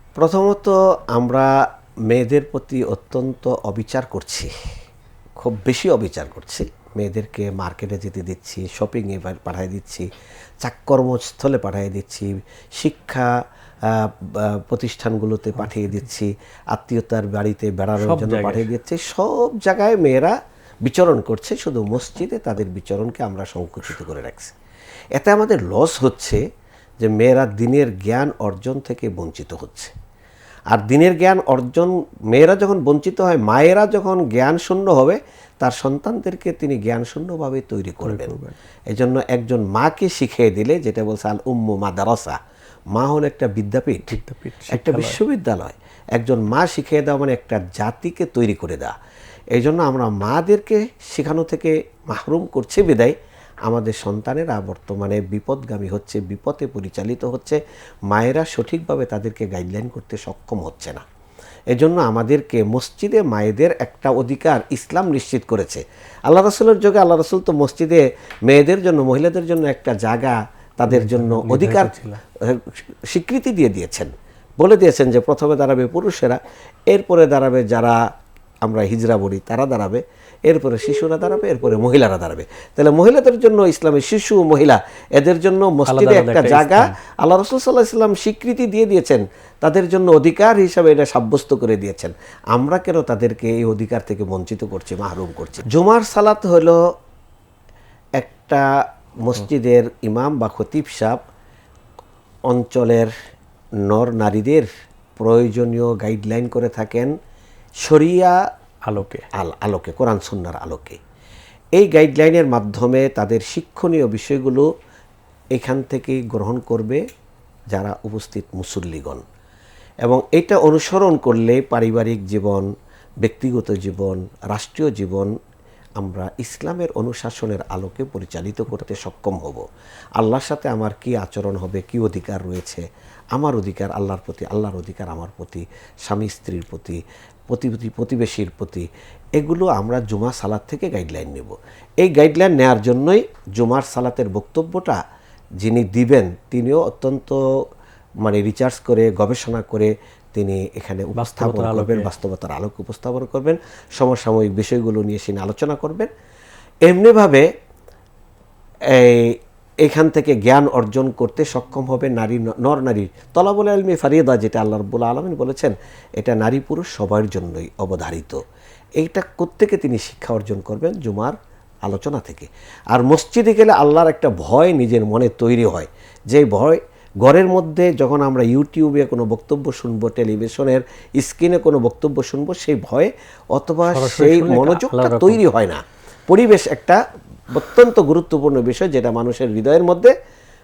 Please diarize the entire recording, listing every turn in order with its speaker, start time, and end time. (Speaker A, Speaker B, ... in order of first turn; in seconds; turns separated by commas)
Speaker A: 0.2-1.5, Speaker A: 2.1-4.5, Speaker A: 5.4-10.1, Speaker A: 10.6-13.3, Speaker A: 13.9-20.3, Speaker B: 18.0-18.7, Speaker A: 20.9-24.6, Speaker A: 25.2-26.4, Speaker A: 27.0-29.9, Speaker A: 30.7-38.4, Speaker B: 38.0-38.6, Speaker A: 38.9-42.4, Speaker A: 43.0-44.2, Speaker B: 44.1-45.2, Speaker A: 44.7-48.9, Speaker A: 49.5-53.1, Speaker A: 53.7-57.6, Speaker A: 58.1-61.0, Speaker A: 61.7-76.4, Speaker B: 70.9-72.2, Speaker A: 76.9-78.0, Speaker A: 78.7-96.8, Speaker B: 85.9-87.0, Speaker A: 98.2-98.6, Speaker A: 99.2-101.2, Speaker A: 102.5-103.1, Speaker A: 103.9-104.7, Speaker A: 105.2-107.1, Speaker A: 107.8-108.4, Speaker B: 108.9-109.2, Speaker A: 109.3-111.0, Speaker A: 111.8-114.7, Speaker A: 115.5-117.0, Speaker A: 117.8-119.2, Speaker A: 120.0-122.7, Speaker A: 123.2-125.3, Speaker A: 126.0-129.6, Speaker A: 130.2-132.8, Speaker A: 133.3-137.0, Speaker A: 137.5-138.9, Speaker A: 139.4-145.0, Speaker A: 145.6-147.4, Speaker A: 148.2-156.1, Speaker B: 151.2-152.1, Speaker A: 156.9-157.4, Speaker A: 158.9-168.4, Speaker A: 169.0-171.3, Speaker A: 171.8-187.0, Speaker B: 183.9-185.4, Speaker A: 187.5-190.1